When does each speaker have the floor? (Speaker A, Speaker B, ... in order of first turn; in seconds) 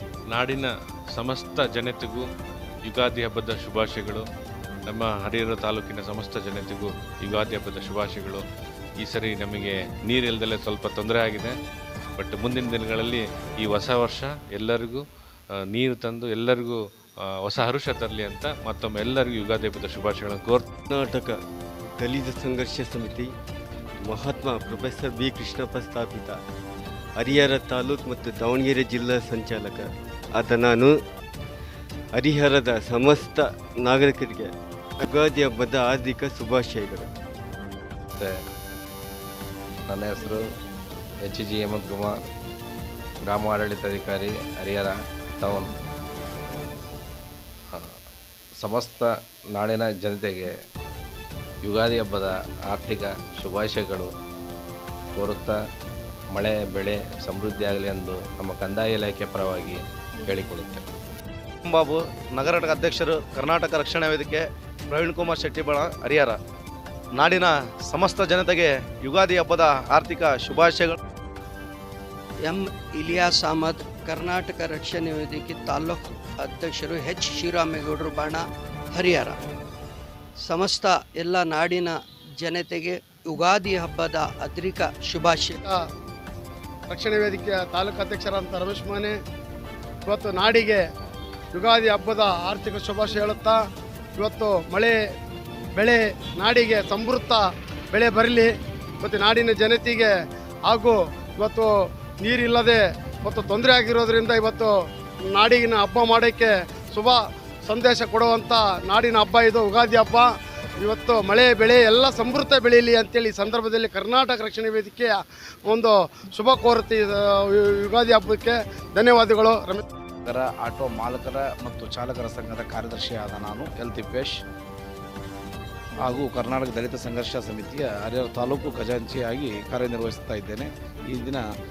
Speaker A: 0.3-2.2, 2.9-4.2, 4.9-8.4, 9.0-11.5, 12.2-15.0, 15.7-16.8, 17.4-20.6
Speaker B: 20.9-21.4, 22.0-23.3, 24.0-26.4, 27.2-30.9, 32.1-34.5, 35.0-37.1
Speaker C: 39.9-40.4, 41.2-42.2, 43.2-45.6, 48.6-50.5, 51.6-54.1, 55.2-55.6, 56.3-60.8
Speaker D: 61.6-66.4, 67.1-71.0
Speaker E: 72.4-79.4, 80.4-85.6
Speaker F: 86.9-89.1, 90.0-90.8, 91.5-93.6, 94.2-95.0, 95.7-98.5, 99.0-100.1, 100.7-104.7, 105.3-110.3, 110.8-119.8
Speaker G: 120.3-124.3, 126.0-131.4